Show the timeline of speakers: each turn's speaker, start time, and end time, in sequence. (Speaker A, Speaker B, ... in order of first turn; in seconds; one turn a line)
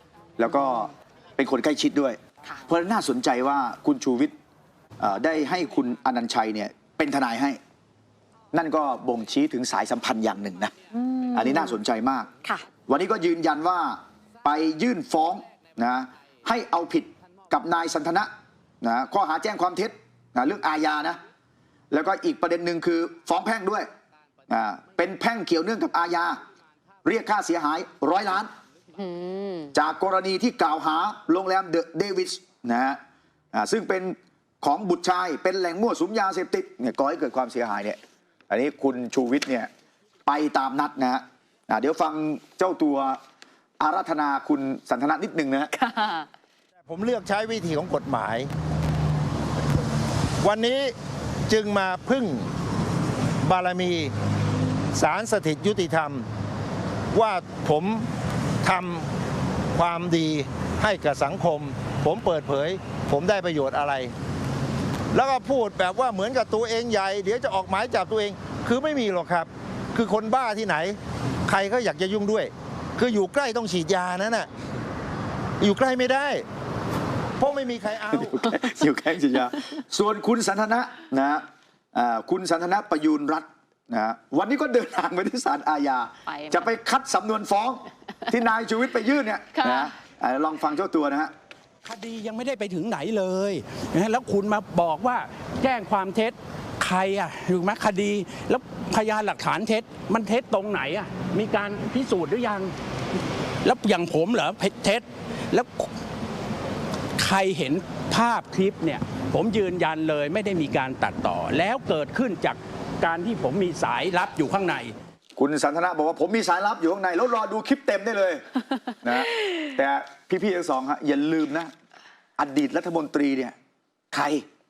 Speaker A: 0.4-4.3
Speaker A: 5.0-7.6
Speaker A: 8.5-10.7
Speaker B: 10.9-11.7
Speaker A: 11.3-12.3
Speaker A: 12.9-18.3
Speaker A: 18.8-21.2
Speaker A: 21.9-23.9
Speaker A: 24.5-26.4
Speaker A: 27.0-28.5
Speaker B: 28.9-29.7
Speaker A: 29.7-33.0
Speaker A: 33.5-39.7
Speaker A: 40.2-43.2
Speaker A: 43.8-45.7
Speaker B: 45.7-46.3
Speaker C: 46.9-48.5
Speaker C: 50.4-50.9
Speaker C: 51.5-52.5
Speaker C: 53.4-54.1
Speaker C: 54.9-56.2
Speaker C: 57.1-58.1
Speaker C: 58.6-59.1
Speaker C: 59.8-64.1
Speaker C: 65.1-74.5
Speaker C: 75.6-76.4
Speaker C: 77.4-78.4
Speaker A: 78.1-91.3
Speaker B: 86.3-86.7
Speaker B: 89.5-89.9
Speaker D: 91.8-102.7
Speaker D: 103.6-105.9
Speaker D: 107.2-114.9
Speaker A: 115.3-121.7
Speaker A: 122.4-123.5
Speaker A: 124.1-124.4